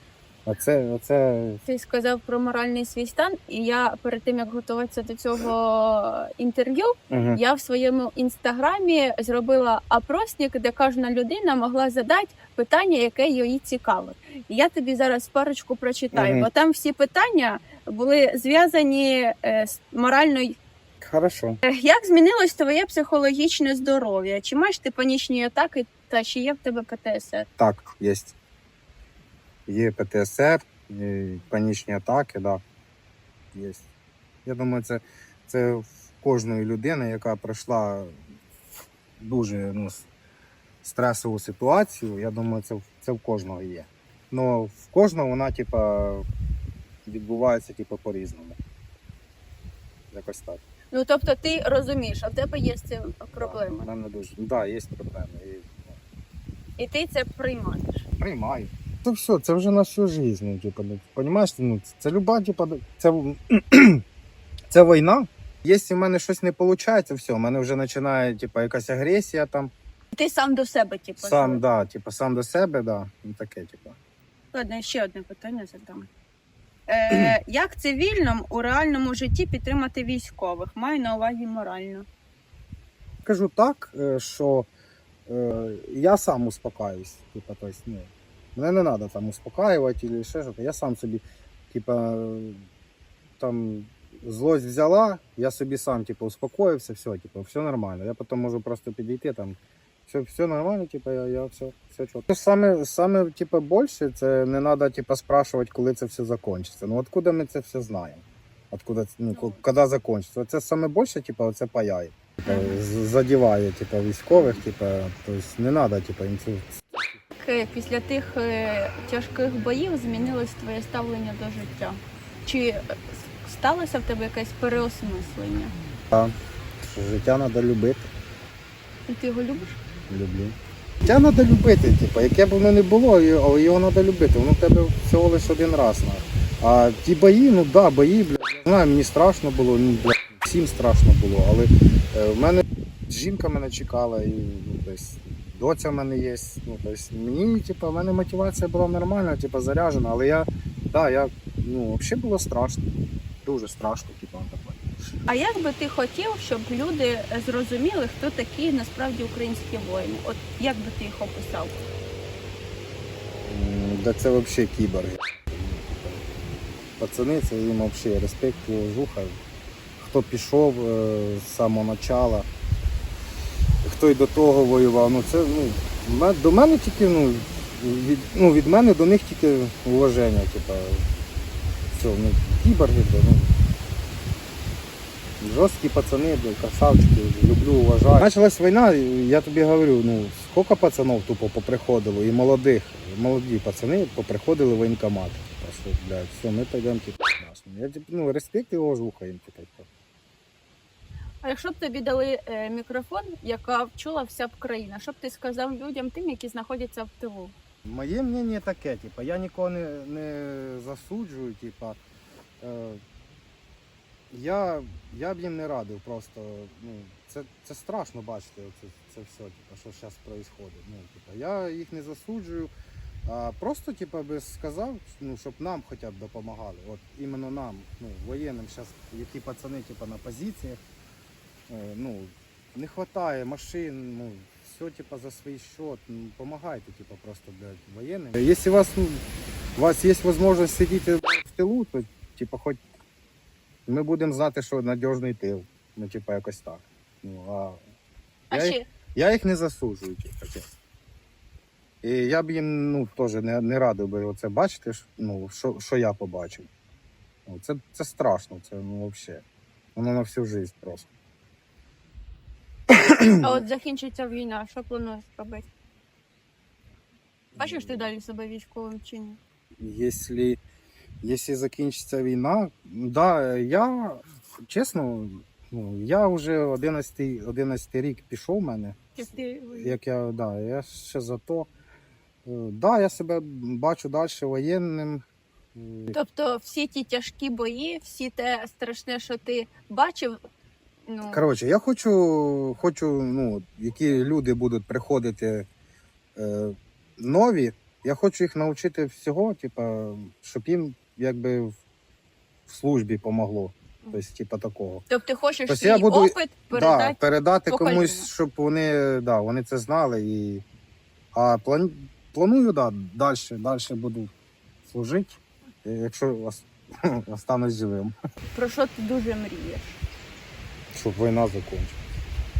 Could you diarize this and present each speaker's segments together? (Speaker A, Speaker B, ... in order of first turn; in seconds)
Speaker A: 0.5-1.6, 7.1-7.4, 16.1-16.5, 21.0-21.6, 27.6-28.3, 29.7-32.6, 33.5-33.9, 34.4-38.1, 39.2-40.1, 40.8-46.3, 47.1-48.6, 50.1-50.6, 53.4-56.0, 58.2-64.0, 64.7-69.7, 71.2-74.0, 83.2-84.7, 85.3-92.7, 93.4-116.8, 126.1-128.1, 130.1-152.8, 153.4-154.9, 163.4-166.2, 167.0-169.4, 170.0-172.5, 173.8-181.1, 181.9-183.6, 185.4-199.9, 207.8-212.0, 212.6-213.0, 214.3-222.7, 223.2-230.8, 231.7-239.2, 239.8-242.8, 243.9-247.8, 248.5-250.7, 252.0-256.7, 257.4-259.4, 259.9-261.1, 262.9-263.6, 267.6-268.1, 269.8-270.6, 271.2-279.2, 279.7-281.7, 282.4-285.2, 285.8-286.1, 291.3-295.7, 296.4-301.7, 302.7-305.1, 305.7-310.6, 311.3-314.3, 314.9-318.1, 320.9-322.0
Speaker B: 1.6-20.6, 21.6-27.5, 50.9-53.9, 56.8-58.1, 70.1-71.6, 74.5-76.1, 76.9-82.1, 109.3-109.6, 112.4-112.8, 114.3-114.6, 117.4-125.8, 129.1-129.8, 155.3-161.8, 201.4-207.5, 248.5-248.8, 263.4-265.7, 267.6-269.4, 279.1-279.9, 286.1-290.4, 291.1-291.4, 305.1-308.3, 318.5-320.0